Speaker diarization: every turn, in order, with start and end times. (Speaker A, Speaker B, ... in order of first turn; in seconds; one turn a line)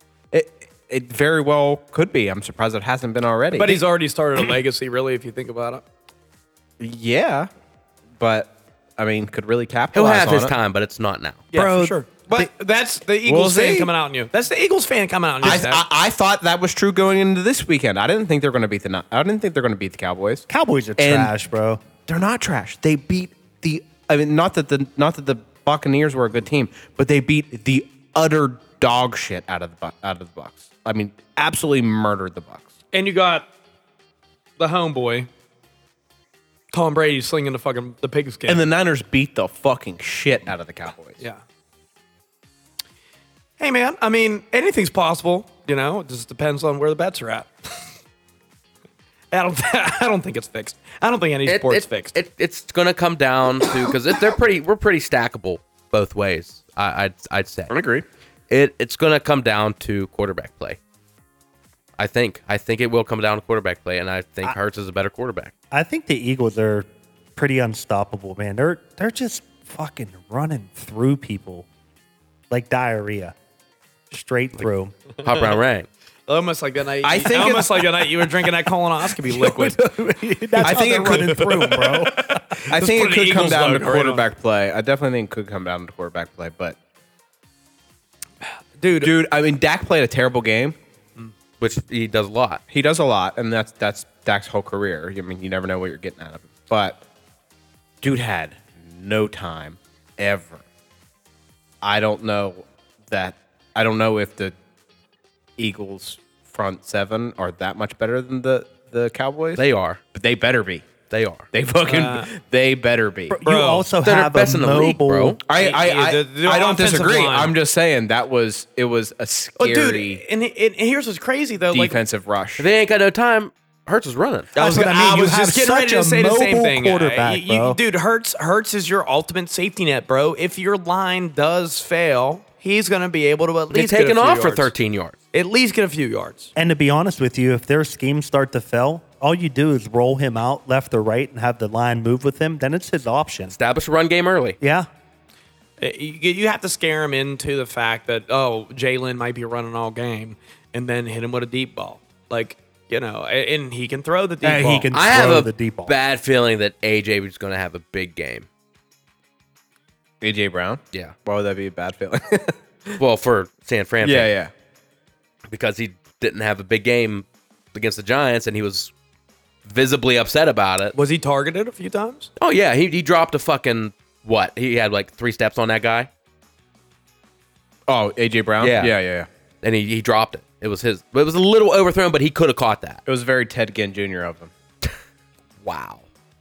Speaker A: 0.3-3.8
Speaker B: 3.5-5.8
Speaker A: 6.8-7.5
Speaker A: 8.2-10.5
Speaker C: 9.9-11.4
Speaker B: 11.5-15.8
Speaker D: 11.5-12.5
Speaker A: 13.2-13.9
Speaker A: 15.4-21.3
Speaker D: 20.5-21.8
Speaker A: 22.0-32.7
Speaker B: 32.9-33.5
Speaker B: 34.6-35.3
Speaker B: 36.7-38.6
Speaker A: 38.5-41.2
Speaker B: 43.6-47.5
Speaker B: 49.3-52.2
Speaker C: 51.5-57.7
Speaker A: 57.7-58.0
Speaker C: 58.5-60.8
Speaker C: 62.0-65.5
Speaker D: 65.7-71.7
Speaker D: 72.5-73.3
Speaker D: 74.1-75.0
Speaker C: 75.2-75.9
Speaker B: 76.3-84.2
Speaker A: 77.0-78.1
Speaker D: 79.3-82.4
Speaker A: 80.6-81.9
Speaker A: 82.7-86.8
Speaker B: 88.8-89.1
Speaker A: 89.0-90.8
Speaker C: 91.6-92.6
Speaker A: 92.7-97.0
Speaker A: 98.0-100.6
Speaker A: 101.8-104.5
Speaker A: 105.6-110.9
Speaker C: 109.6-110.0
Speaker C: 111.1-111.5
Speaker A: 111.5-113.4
Speaker B: 111.8-112.3
Speaker D: 113.3-115.4
Speaker B: 113.4-113.9
Speaker C: 114.0-115.4
Speaker A: 115.5-120.2
Speaker B: 115.5-117.5
Speaker B: 119.6-122.0
Speaker A: 121.7-122.7
Speaker C: 122.6-124.5
Speaker B: 124.5-134.7
Speaker D: 124.5-127.8
Speaker C: 133.7-135.2
Speaker B: 135.3-136.5
Speaker D: 136.6-143.6
Speaker C: 143.5-144.6
Speaker D: 144.6-144.9
Speaker B: 145.8-154.9
Speaker D: 154.4-155.9
Speaker C: 154.9-158.5
Speaker A: 160.2-162.6
Speaker C: 163.0-164.3
Speaker A: 164.0-164.5
Speaker C: 165.5-168.9
Speaker C: 169.7-171.0
Speaker B: 170.9-172.3
Speaker C: 172.4-176.1
Speaker A: 177.9-179.3
Speaker C: 178.6-179.0
Speaker C: 179.6-183.0
Speaker A: 183.1-184.5
Speaker C: 185.6-186.1